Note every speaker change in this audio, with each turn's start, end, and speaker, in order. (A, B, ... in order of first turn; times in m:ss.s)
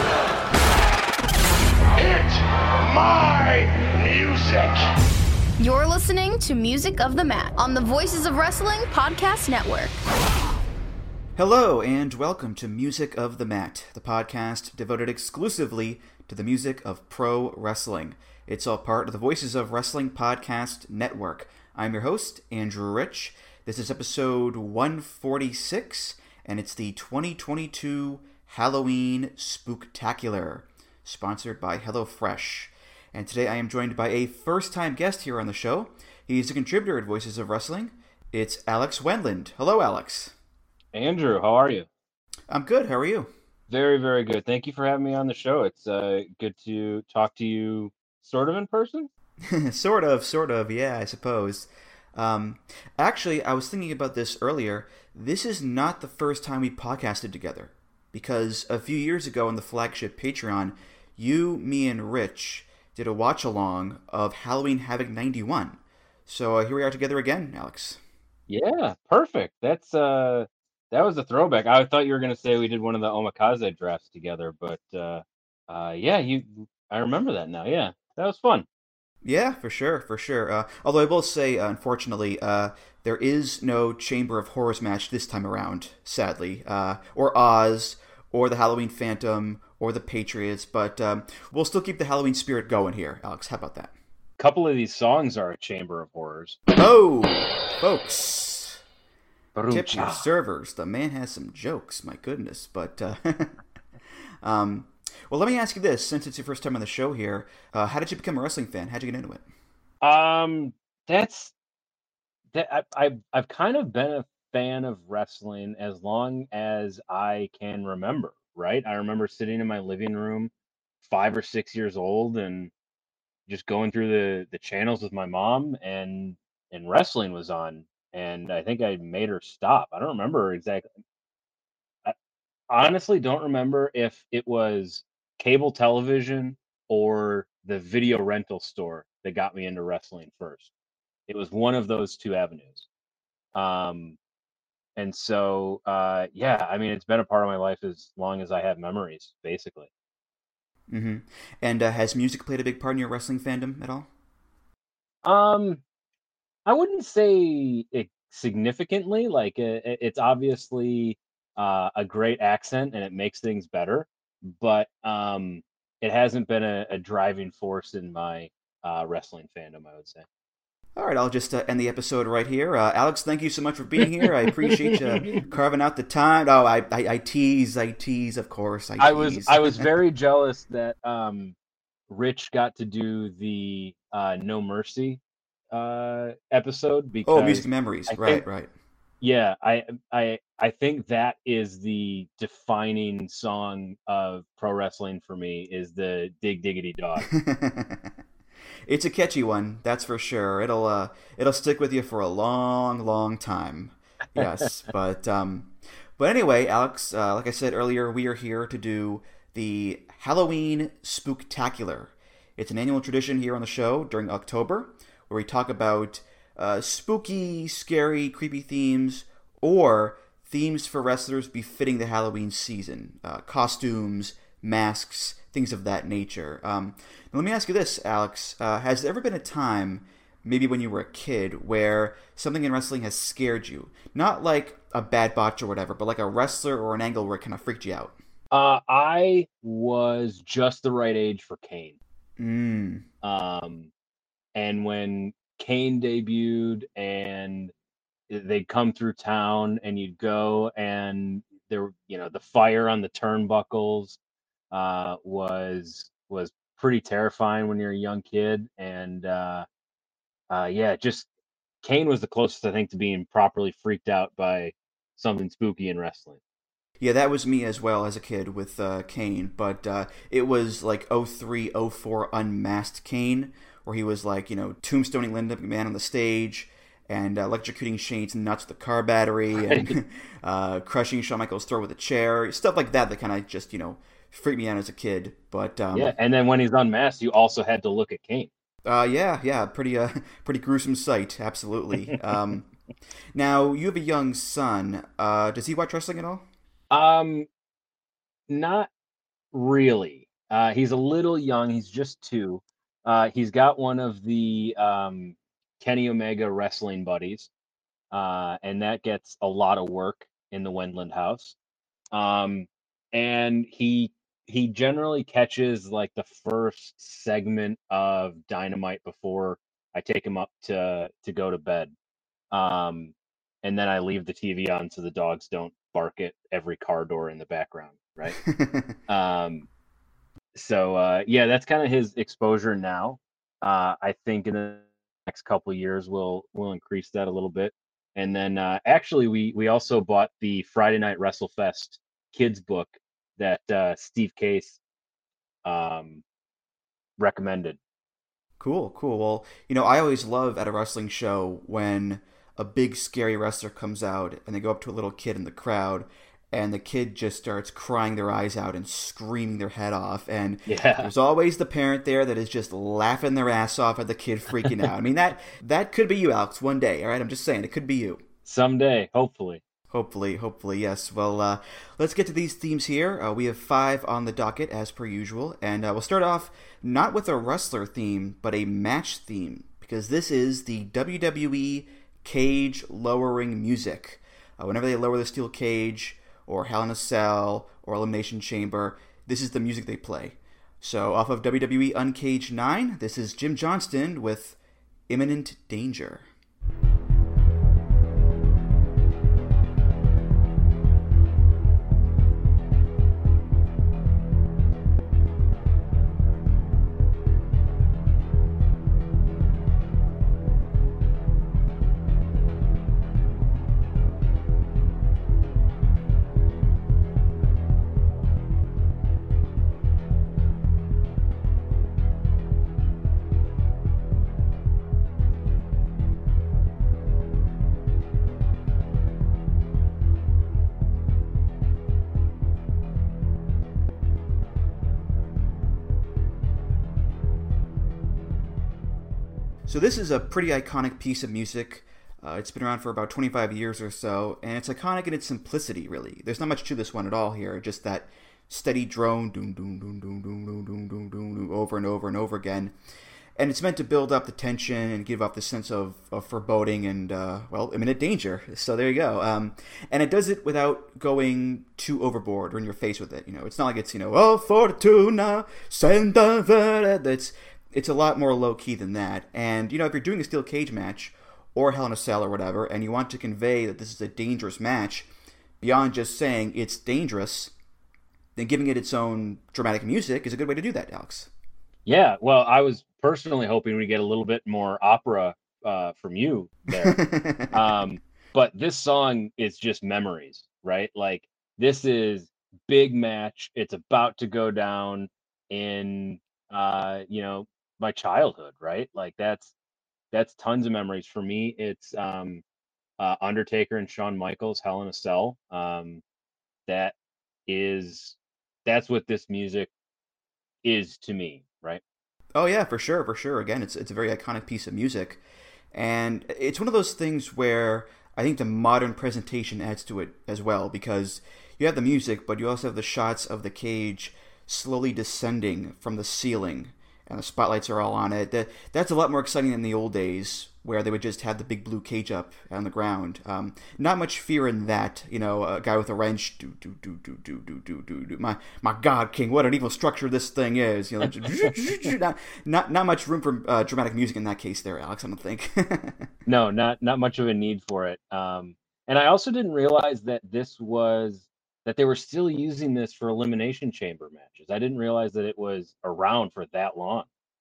0:02.0-0:04.9 A
0:05.6-0:10.0 B
0:11.4-0:40.3 C
0:40.9-0:41.9 D
0:42.5-0:43.3 C
0:43.7-0:49.1 D
0:49.4-1:08.0 C
1:08.5-1:18.6 D
1:19.2-1:33.9 C
1:34.4-1:36.6 D
1:36.7-1:38.8 C
1:39.5-1:40.3 D
1:39.7-1:43.6 C
1:44.4-1:49.4 C
1:50.0-1:51.5 D
1:52.5-2:00.5 D
2:01.0-2:02.7 D
2:03.5-2:10.9 D
2:12.7-2:20.7 D
2:21.3-2:22.8 D
2:23.5-2:24.2 D
2:25.0-2:29.9 D
2:30.9-2:34.1 C
2:35.2-2:35.8 D
2:36.6-2:50.2 D
2:51.0-2:59.9 C
2:54.7-2:55.4 D
2:59.0-3:01.5 D
3:02.1-3:05.2 D
3:05.7-3:08.4 D
3:07.2-3:08.7 C
3:09.2-3:17.3 D
3:17.2-3:18.1 C
3:18.9-3:58.2 C
3:24.4-3:24.6 D
3:58.5-4:02.0 D
4:02.4-4:03.0 C
4:03.2-4:03.9 D
4:04.5-4:07.7 D
4:08.3-4:14.2 D
4:14.7-4:19.6 D
4:20.5-4:21.3 D
4:21.8-4:26.4 D
4:27.0-4:46.1 C
4:39.6-4:39.9 D
4:45.9-4:48.5 D
4:48.8-4:52.7 C
4:53.3-4:56.4 C
4:56.9-4:57.5 D
4:58.5-4:58.9 D
4:59.5-5:07.5 D
5:08.1-5:11.6 D
5:12.1-5:21.9 D
5:22.5-5:28.4 D
5:28.3-5:29.0 C
5:29.1-5:29.7 D
5:30.5-5:44.8 D
5:45.6-5:46.2 D
5:47.2-5:47.8 D
5:48.6-6:08.2 C
6:00.7-6:01.1 D
6:08.4-6:09.6 D
6:09.9-6:34.6 C
6:35.1-6:36.3 C
7:19.6-7:32.8 C
7:33.4-7:55.1 C
7:55.6-7:57.5 C
7:58.4-8:01.3 C
8:01.8-8:07.0 D
8:06.7-8:07.7 C
8:07.5-8:19.5 D
8:20.1-8:22.4 D
8:23.0-8:26.0 D
8:26.7-8:26.9 D
8:27.5-8:29.7 D
8:30.6-8:31.8 D
8:32.3-8:35.2 C
8:35.7-9:06.1 C
9:01.2-9:01.9 D
9:06.2-9:17.1 D